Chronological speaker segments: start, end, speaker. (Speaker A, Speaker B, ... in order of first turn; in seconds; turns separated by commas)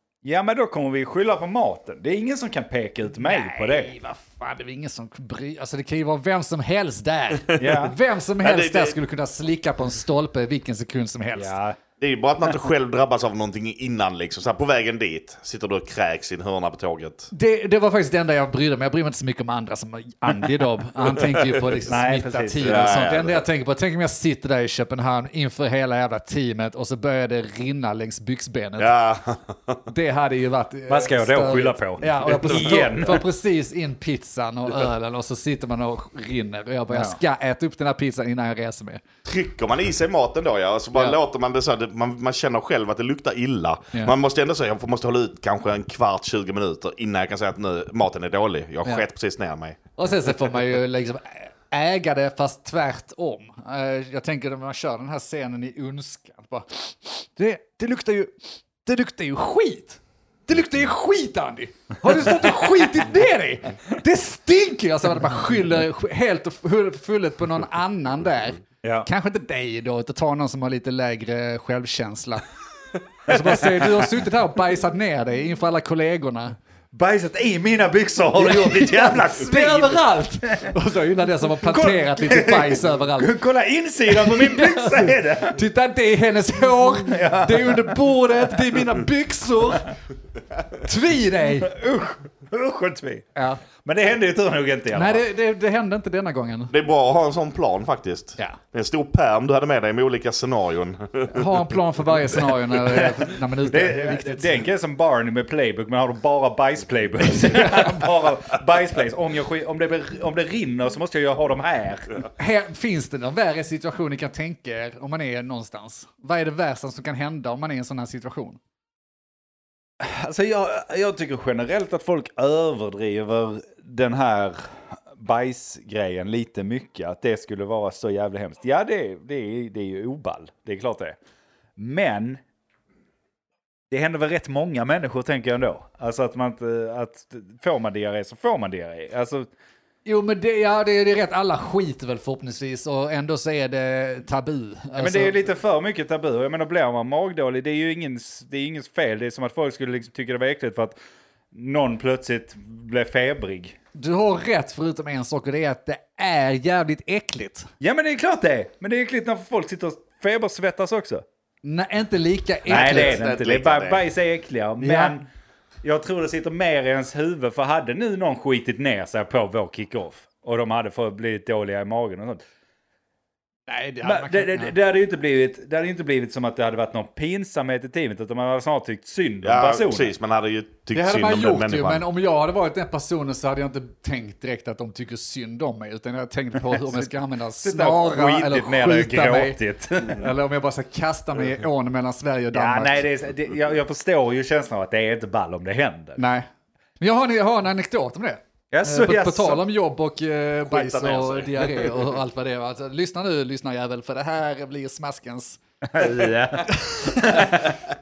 Speaker A: 0.2-3.9, Speaker B: 3.2-11.5, Speaker A: 7.6-7.9, Speaker C: 8.4-8.9, Speaker A: 11.3-11.8, Speaker C: 12.0-17.3, Speaker B: 17.3-28.9, Speaker A: 21.8-23.1, Speaker C: 22.6-23.4, Speaker C: 28.8-29.8, Speaker B: 29.9-39.0, Speaker A: 30.9-33.2, Speaker C: 32.4-33.2, Speaker A: 36.9-37.2, Speaker C: 39.2-49.8, Speaker B: 50.0-72.4, Speaker B: 73.2-76.6, Speaker A: 73.3-74.1, Speaker A: 76.9-80.7, Speaker B: 78.3-83.3, Speaker A: 81.6-85.6, Speaker B: 84.1-90.0, Speaker A: 86.7-88.0, Speaker B: 90.8-91.7, Speaker A: 91.6-93.2, Speaker B: 93.3-93.6, Speaker A: 93.8-95.2, Speaker B: 94.9-96.7, Speaker C: 96.7-101.7, Speaker B: 101.3-104.6, Speaker A: 102.9-112.2, Speaker B: 107.3-108.1, Speaker B: 112.4-118.6, Speaker A: 120.0-131.2, Speaker A: 131.8-132.4, Speaker A: 133.9-139.5, Speaker B: 140.0-145.4, Speaker A: 145.0-150.9, Speaker A: 151.5-153.7, Speaker B: 153.9-157.7, Speaker A: 157.8-161.2, Speaker B: 161.6-163.2, Speaker A: 162.7-165.3, Speaker C: 162.7-164.0, Speaker B: 164.8-165.2, Speaker A: 165.8-172.4, Speaker B: 173.7-174.7, Speaker A: 174.0-180.1, Speaker C: 179.4-182.0, Speaker B: 180.9-193.0, Speaker A: 186.7-187.1, Speaker A: 187.6-190.3, Speaker A: 192.5-196.2, Speaker B: 196.2-196.4, Speaker B: 197.0-207.7, Speaker A: 198.7-199.6, Speaker A: 200.7-202.1, Speaker A: 205.8-207.6